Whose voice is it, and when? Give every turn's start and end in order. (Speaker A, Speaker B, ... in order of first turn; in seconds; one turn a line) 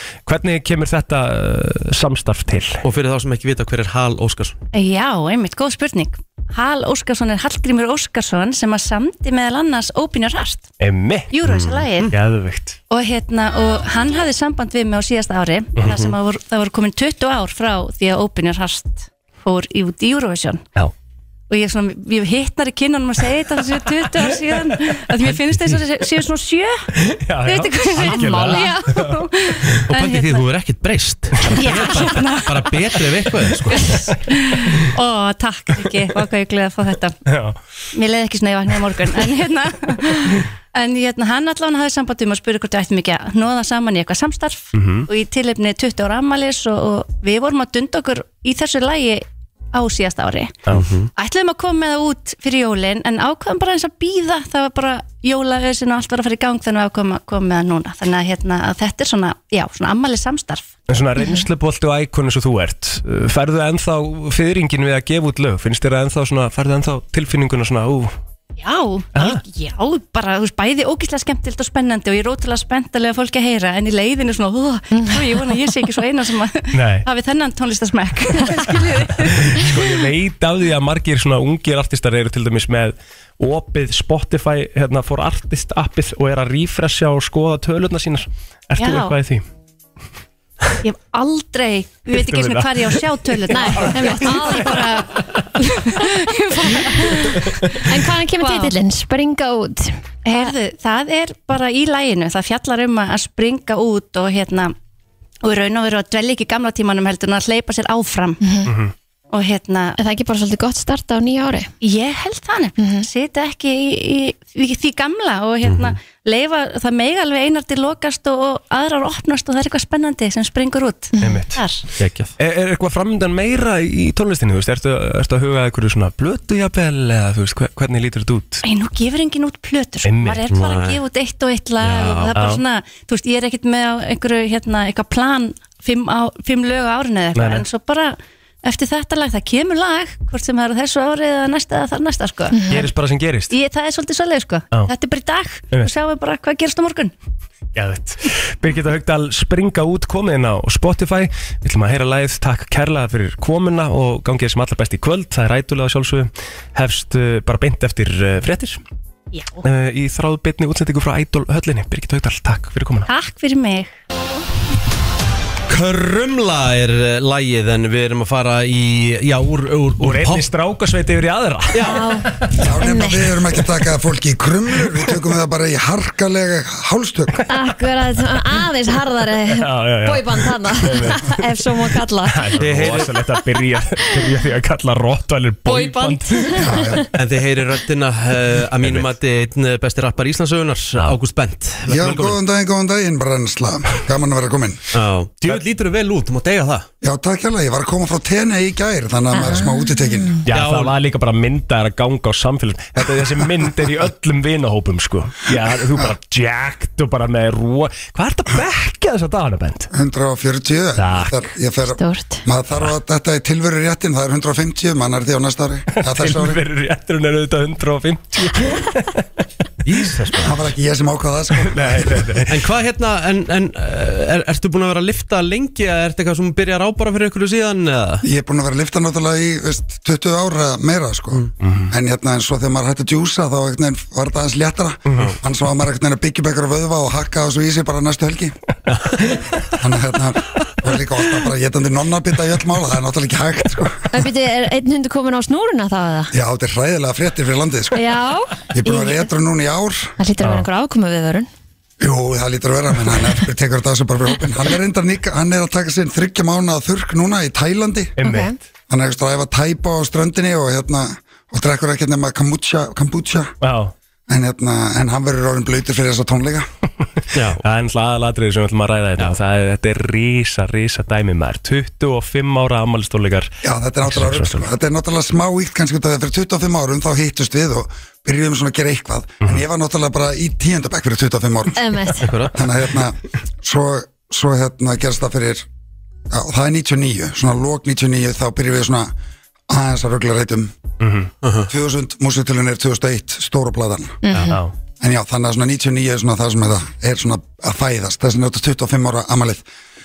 Speaker A: 0.2-2.8
Speaker B: 2.8-4.6
Speaker C: 4.7-10.7
Speaker A: 10.8-11.3
Speaker C: 11.3-12.1
Speaker B: 11.4-12.1
Speaker A: 12.1-12.8
Speaker C: 12.9-20.6
Speaker B: 15.9-16.1
Speaker C: 21.5-26.9
Speaker A: 24.4-24.7
Speaker A: 27.0-29.2
Speaker C: 27.4-30.5
Speaker D: 27.9-28.8
Speaker B: 29.9-33.9
Speaker C: 31.5-33.0
Speaker C: 33.6-37.2
Speaker A: 37.3-37.6
Speaker C: 37.9-50.6
Speaker A: 44.7-45.1
Speaker B: 50.7-51.1
Speaker C: 51.1-60.7
Speaker A: 60.9-68.1
Speaker C: 68.6-80.0
Speaker A: 69.1-69.4
Speaker D: 74.9-75.4
Speaker A: 76.7-77.0
Speaker A: 79.5-89.4
Speaker C: 88.8-89.1
Speaker C: 90.8-97.8
Speaker A: 92.1-95.4
Speaker D: 93.5-95.1
Speaker D: 96.8-100.0
Speaker C: 98.4-98.7
Speaker C: 100.2-104.7
Speaker C: 105.4-108.4
Speaker D: 108.4-108.7
Speaker A: 108.7-108.9
Speaker C: 109.3-110.0
Speaker D: 110.0-111.7
Speaker C: 111.8-121.8
Speaker D: 112.8-113.0
Speaker B: 115.6-116.0
Speaker D: 121.2-121.4
Speaker A: 121.2-121.6
Speaker B: 122.0-122.3
Speaker A: 122.4-128.6
Speaker C: 128.6-142.9
Speaker A: 130.0-130.4
Speaker B: 130.5-131.0
Speaker B: 131.8-132.3
Speaker A: 132.3-132.6
Speaker A: 137.3-137.6
Speaker D: 142.5-142.8
Speaker A: 142.7-143.5
Speaker C: 143.5-147.1
Speaker A: 147.7-158.8
Speaker C: 159.3-159.6
Speaker A: 159.6-163.1
Speaker C: 163.1-163.9
Speaker B: 165.7-170.5
Speaker A: 170.0-172.7
Speaker B: 171.7-172.1
Speaker D: 171.8-173.3
Speaker E: 172.6-177.4
Speaker D: 177.5-182.5
Speaker A: 179.5-181.4
Speaker A: 182.3-187.0
Speaker B: 182.6-183.1
Speaker D: 185.7-187.0
Speaker E: 186.6-187.1
Speaker B: 187.1-192.4
Speaker A: 188.8-189.1
Speaker E: 191.9-194.8
Speaker B: 194.9-196.8
Speaker E: 197.0-200.3
Speaker D: 199.3-200.4
Speaker A: 200.4-209.9
Speaker B: 200.5-200.9
Speaker E: 209.9-216.6
Speaker A: 211.0-211.5
Speaker D: 211.8-212.4
Speaker A: 216.0-219.4
Speaker B: 219.8-220.5
Speaker A: 219.9-220.5
Speaker E: 220.4-222.4
Speaker A: 221.6-222.5
Speaker B: 222.5-228.2
Speaker E: 228.2-238.5
Speaker A: 231.6-231.9
Speaker E: 239.8-244.1
Speaker D: 244.1-246.3
Speaker E: 246.3-248.1
Speaker D: 247.9-249.3
Speaker E: 248.7-250.1
Speaker D: 250.2-251.5
Speaker E: 252.0-258.1
Speaker A: 258.2-258.6
Speaker D: 258.2-258.6
Speaker E: 258.9-263.5
Speaker A: 263.6-263.9
Speaker E: 264.3-266.7
Speaker B: 267.3-267.6
Speaker A: 267.6-274.7
Speaker E: 273.6-285.6
Speaker D: 281.7-282.3
Speaker B: 282.2-282.6
Speaker E: 286.3-289.1
Speaker E: 289.7-290.7
Speaker A: 291.0-291.3
Speaker B: 291.4-291.7
Speaker E: 291.7-294.2
Speaker D: 294.2-294.6
Speaker E: 295.0-299.6